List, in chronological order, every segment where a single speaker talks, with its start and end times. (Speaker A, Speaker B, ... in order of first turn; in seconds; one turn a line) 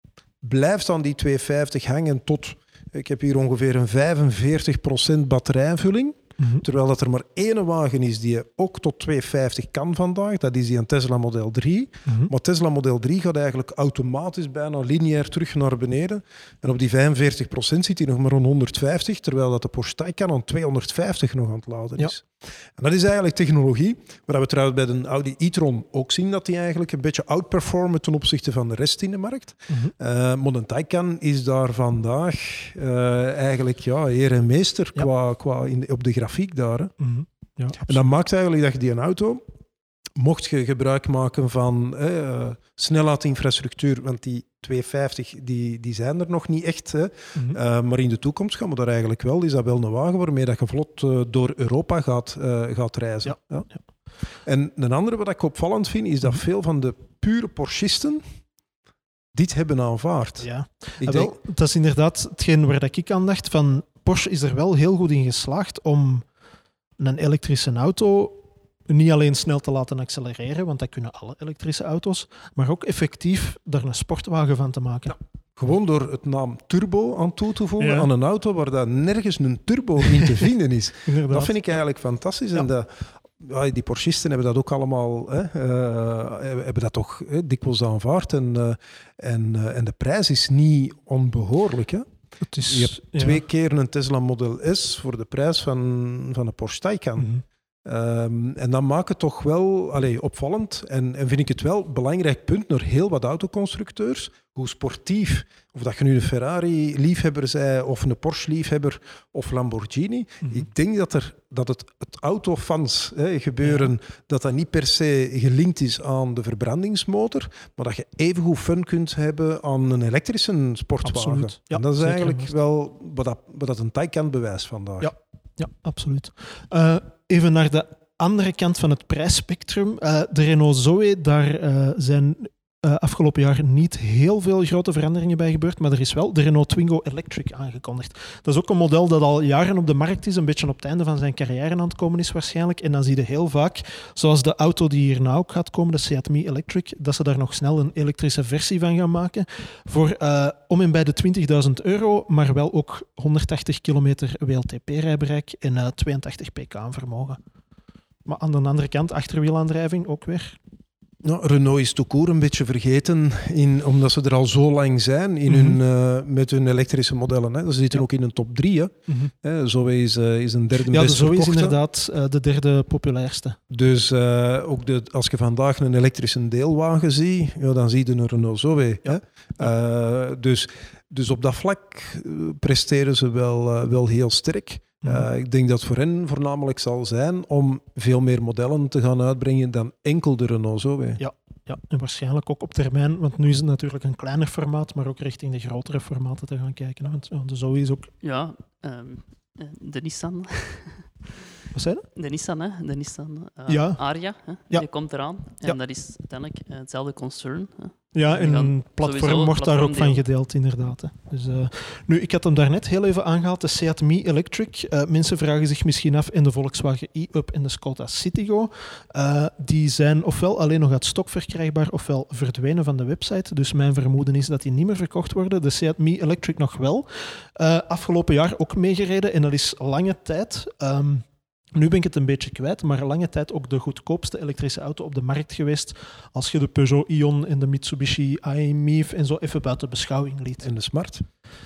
Speaker A: 0.4-36.9
Speaker B: 6.4-6.6
Speaker B: 12.1-12.3
Speaker B: 29.7-29.9
Speaker B: 37.0-38.0
Speaker A: 37.9-39.4
Speaker A: 40.1-53.7
Speaker A: 54.4-58.2
Speaker A: 59.3-60.5
Speaker B: 60.4-66.2
Speaker A: 61.0-61.3
Speaker B: 67.0-75.2
Speaker A: 75.5-92.0
Speaker B: 77.8-78.1
Speaker B: 81.0-81.5
Speaker B: 92.4-93.4
Speaker A: 92.6-97.3
Speaker B: 97.2-97.4
Speaker A: 97.8-125.1
Speaker B: 113.6-113.9
Speaker B: 121.0-122.5
Speaker B: 125.0-157.4
Speaker B: 158.2-160.6
Speaker A: 161.2-171.8
Speaker B: 165.5-165.8
Speaker B: 169.1-169.3
Speaker B: 170.8-173.6
Speaker A: 173.7-191.2
Speaker B: 185.0-185.3
Speaker B: 191.2-198.1
Speaker C: 198.2-201.3
Speaker B: 201.7-202.0
Speaker C: 202.1-210.2
Speaker B: 203.7-204.0
Speaker B: 208.1-240.7
Speaker A: 240.6-241.2